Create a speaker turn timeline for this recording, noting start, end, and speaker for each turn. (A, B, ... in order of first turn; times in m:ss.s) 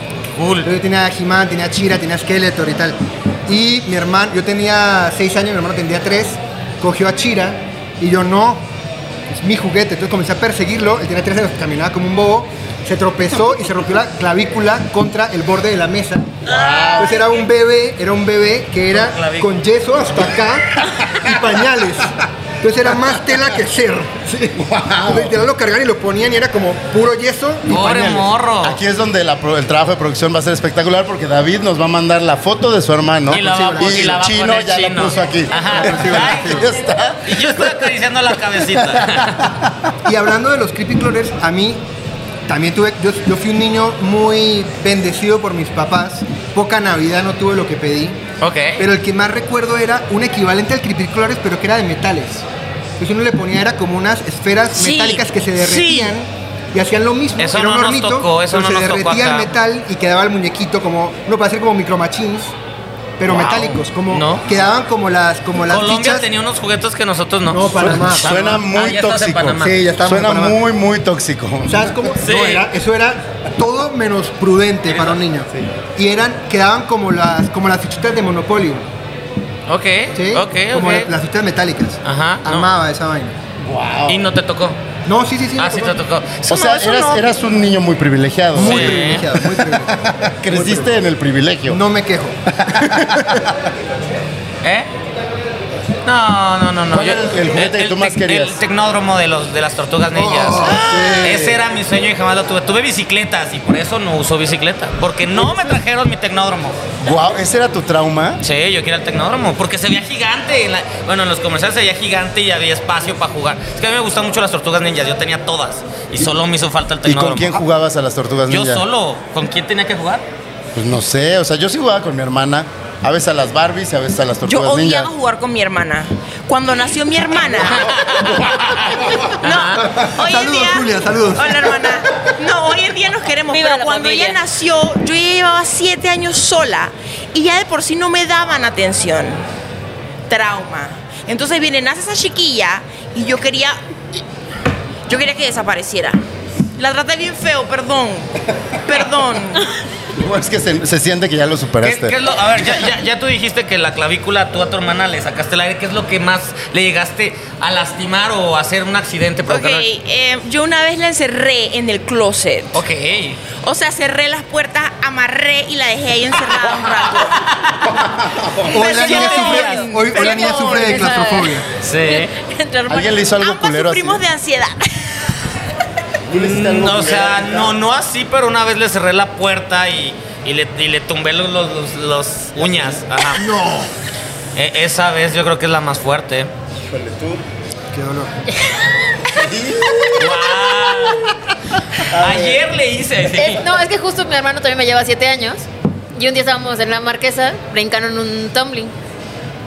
0:00.3-0:00.7 A
0:00.6-0:08.6 B
0:09.3-0:16.4 B
0:16.4-0:17.2 C
0:16.5-0:17.1 A
0:17.0-0:28.3 B
0:18.9-0:19.5 A
0:24.6-0:25.4 C
0:27.6-0:28.8 A
0:28.6-0:37.9 C
0:33.3-0:34.2 B
0:33.3-0:36.7 A
0:35.5-0:36.7 B
0:37.2-0:39.4 A
0:38.6-0:39.8 C
0:40.0-0:41.8 B
0:42.5-0:48.2 B
0:48.4-0:48.8 A
0:48.8-0:52.4 B
0:53.0-1:02.5 B
0:54.7-0:56.1 A
0:57.4-0:59.5 A
1:03.2-1:06.2 B
1:03.3-1:04.4 A
1:05.6-1:09.8 A
1:07.5-1:08.3 B
1:07.8-1:11.9 C
1:09.6-1:10.6 B
1:11.6-1:18.8 B
1:12.2-1:12.6 A
1:14.9-1:15.2 A
1:19.7-1:21.1 A
1:20.1-1:23.3 B
1:22.0-1:22.7 A
1:23.6-1:24.2 C
1:24.1-1:24.8 A
1:25.0-1:25.9 B
1:25.6-1:27.2 A
1:26.5-1:31.8 C
1:28.5-1:30.9 B
1:28.6-1:29.3 A
1:31.7-1:33.4 B
1:32.5-1:33.5 C
1:34.6-1:34.9 A
1:36.0-1:46.8 A
1:36.9-1:38.6 C
1:40.1-1:41.6 B
1:47.0-1:48.4 C
1:48.4-1:57.6 A
1:57.0-1:58.8 C
1:58.5-2:00.2 A
2:00.7-2:05.1 C
2:04.4-2:07.9 D
2:07.6-2:09.8 A
2:07.9-2:09.2 C
2:09.4-2:19.4 D
2:09.7-2:12.0 B
2:13.5-2:14.4 E
2:20.3-2:23.8 D
2:25.1-2:26.2 D
2:26.8-2:28.3 D
2:28.8-2:29.7 D
2:30.1-2:32.2 C
2:31.8-2:39.8 A
2:39.5-2:42.8 D
2:42.7-2:43.4 A
2:43.6-2:47.2 D
2:47.1-2:47.8 A
2:47.8-2:48.8 C
2:48.7-2:51.6 B
2:48.7-2:51.1 D
2:48.8-2:50.3 A
2:50.2-2:53.2 E
2:51.8-2:52.3 A
2:52.9-2:54.2 C
2:53.4-2:55.3 D
2:56.3-2:57.8 C
2:56.3-3:03.4 A
3:03.4-3:03.9 B
3:04.6-3:06.5 A
3:06.8-3:07.4 C
3:07.9-3:08.3 B
3:09.3-3:10.3 C
3:10.2-3:11.3 A
3:12.1-3:12.6 C
3:12.1-3:13.6 A
3:13.3-3:18.9 E